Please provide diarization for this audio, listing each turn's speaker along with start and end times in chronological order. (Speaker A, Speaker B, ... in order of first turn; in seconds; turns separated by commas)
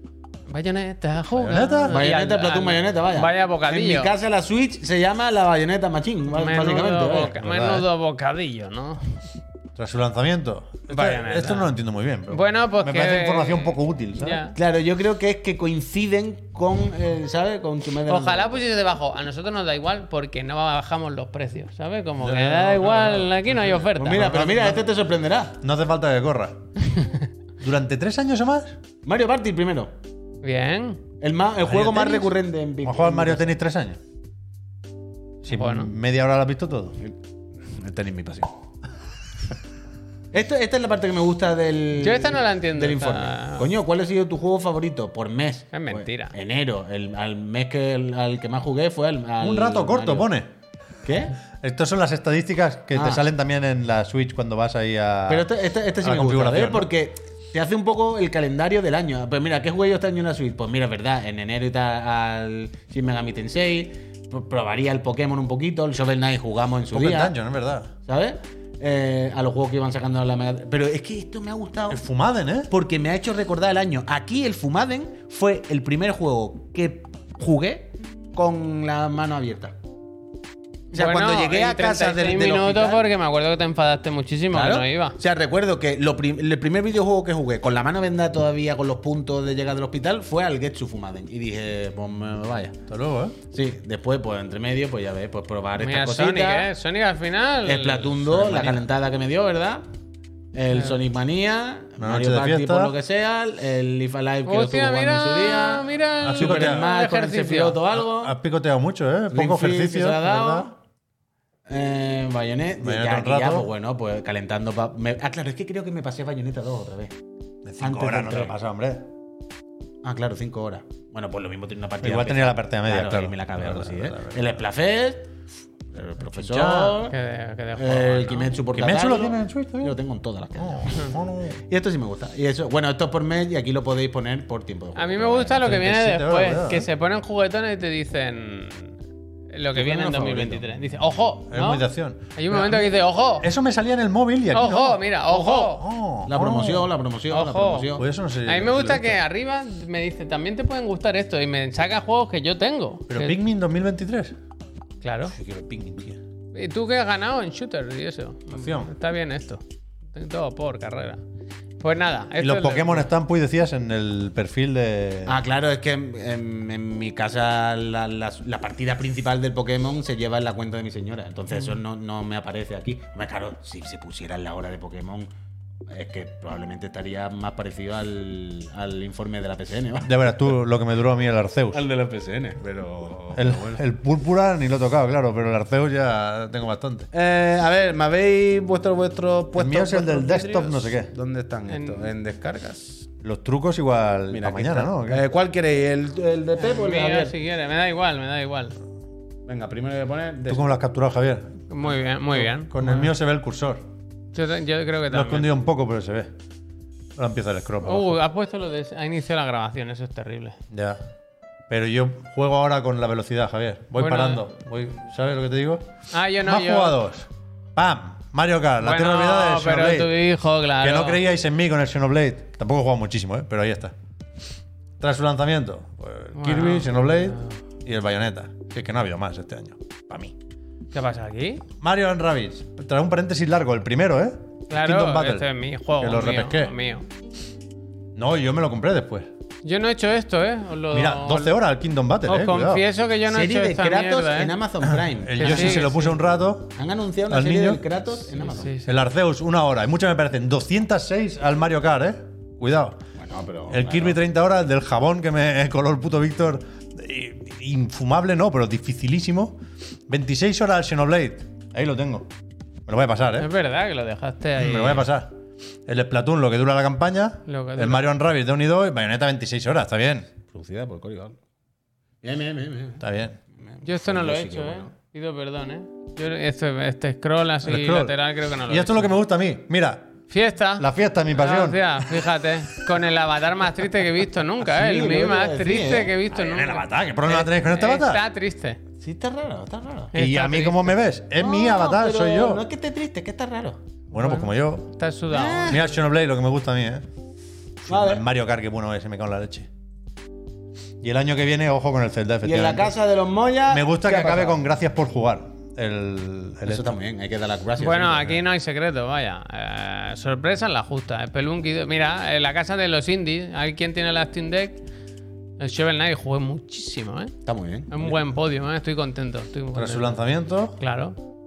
Speaker A: 0.5-4.1, Speaker B: 1.4-2.0, Speaker C: 1.9-7.4, Speaker A: 6.3-9.2, Speaker B: 7.3-7.9, Speaker B: 9.8-14.4, Speaker A: 10.9-11.7, Speaker A: 12.3-14.6, Speaker C: 14.6-18.6, Speaker A: 18.1-24.4, Speaker C: 22.3-23.3, Speaker B: 22.4-23.1, Speaker C: 23.9-25.6, Speaker B: 24.1-24.9, Speaker B: 25.6-26.6, Speaker B: 27.6-28.8, Speaker C: 29.0-29.9, Speaker A: 30.4-31.0, Speaker C: 31.2-33.5, Speaker B: 31.6-34.0, Speaker B: 35.4-37.0, Speaker A: 35.5-35.9, Speaker C: 37.0-38.5, Speaker C: 40.3-50.3, Speaker A: 42.0-43.7, Speaker A: 45.7-46.4, Speaker B: 49.4-50.5, Speaker C: 51.0-51.4, Speaker B: 51.6-55.5, Speaker C: 52.9-53.2, Speaker C: 55.3-67.3, Speaker B: 56.0-56.9, Speaker B: 66.9-67.9, Speaker C: 68.1-72.0, Speaker B: 71.9-72.7, Speaker C: 72.7-79.8, Speaker C: 80.9-83.0, Speaker A: 80.9-85.2, Speaker C: 84.5-92.8, Speaker B: 92.9-93.4, Speaker C: 93.5-96.7, Speaker A: 95.8-98.2, Speaker C: 97.6-99.8, Speaker B: 98.3-98.8, Speaker C: 100.5-108.3, Speaker B: 102.0-102.9, Speaker A: 104.5-107.8, Speaker B: 106.2-106.9, Speaker B: 107.9-110.7, Speaker C: 109.3-110.8, Speaker C: 111.7-117.2, Speaker B: 112.8-113.7, Speaker B: 117.7-119.1, Speaker C: 117.8-118.6, Speaker C: 120.0-125.3, Speaker B: 122.0-124.6, Speaker C: 125.9-127.2, Speaker B: 126.3-127.0, Speaker A: 127.1-128.6, Speaker C: 127.8-131.2, Speaker B: 128.7-130.0, Speaker B: 130.6-131.6, Speaker C: 131.7-135.7, Speaker A: 134.9-138.9, Speaker B: 135.6-136.9, Speaker A: 139.5-143.5, Speaker B: 139.8-140.6, Speaker B: 141.5-146.9, Speaker A: 144.5-145.8, Speaker C: 146.3-148.0, Speaker A: 147.3-147.9, Speaker B: 148.0-149.2, Speaker A: 148.5-153.4, Speaker B: 153.1-154.4, Speaker A: 155.0-155.3, Speaker B: 155.3-156.2, Speaker A: 156.5-159.6, Speaker B: 158.5-158.9, Speaker A: 160.1-161.2, Speaker A: 161.8-163.1, Speaker B: 162.4-165.4, Speaker C: 165.3-175.3, Speaker C: 175.9-180.3, Speaker B: 180.0-181.8, Speaker C: 181.7-183.8, Speaker B: 183.3-187.1, Speaker C: 187.1-193.1, Speaker B: 189.6-191.1, Speaker A: 191.7-192.1, Speaker B: 193.2-195.2, Speaker C: 194.3-197.3, Speaker A: 196.6-198.8, Speaker C: 199.5-200.7, Speaker B: 200.5-203.8, Speaker A: 201.7-203.1, Speaker A: 204.3-205.5, Speaker B: 205.1-206.3, Speaker B: 207.2-208.2, Speaker A: 207.8-210.6, Speaker B: 210.7-211.0, Speaker B: 211.7-215.9, Speaker A: 214.0-214.4, Speaker A: 216.1-217.0, Speaker B: 216.4-220.2, Speaker A: 218.8-221.2, Speaker B: 220.8-223.9, Speaker B: 225.0-230.3, Speaker A: 226.4-227.4, Speaker A: 230.9-231.7, Speaker B: 231.8-235.5, Speaker A: 234.7-237.1, Speaker B: 236.0-236.7, Speaker B: 238.2-239.3, Speaker A: 239.6-241.6, Speaker B: 240.9-242.8, Speaker A: 242.3-244.6, Speaker C: 243.3-246.0, Speaker B: 245.2-246.8, Speaker A: 245.4-246.1, Speaker C: 246.8-248.7, Speaker B: 247.3-247.8, Speaker A: 248.4-248.9, Speaker B: 248.8-253.0, Speaker C: 253.2-254.2, Speaker B: 253.7-262.3, Speaker B: 262.9-263.5, Speaker A: 263.4-265.1, Speaker B: 264.6-265.4, Speaker B: 265.9-270.3, Speaker A: 267.5-268.0, Speaker C: 270.5-271.4, Speaker C: 272.2-273.0, Speaker B: 273.0-273.4, Speaker C: 273.6-274.9, Speaker A: 273.9-279.1, Speaker B: 277.6-280.1, Speaker A: 280.3-288.8, Speaker B: 280.8-282.1, Speaker C: 284.6-286.2, Speaker B: 286.3-288.2, Speaker C: 289.0-290.1, Speaker A: 290.1-290.9, Speaker B: 290.1-292.6, Speaker C: 291.4-293.8, Speaker A: 294.1-295.9, Speaker B: 294.1-294.9, Speaker C: 295.3-295.8, Speaker B: 295.7-297.1, Speaker B: 297.8-299.7, Speaker C: 297.9-298.2, Speaker B: 301.0-302.9, Speaker C: 302.4-304.6, Speaker B: 303.7-306.9, Speaker C: 306.6-308.4, Speaker A: 307.8-314.8, Speaker A: 315.6-317.3, Speaker C: 317.4-318.1, Speaker A: 317.9-320.2, Speaker B: 319.7-320.8, Speaker A: 320.8-321.2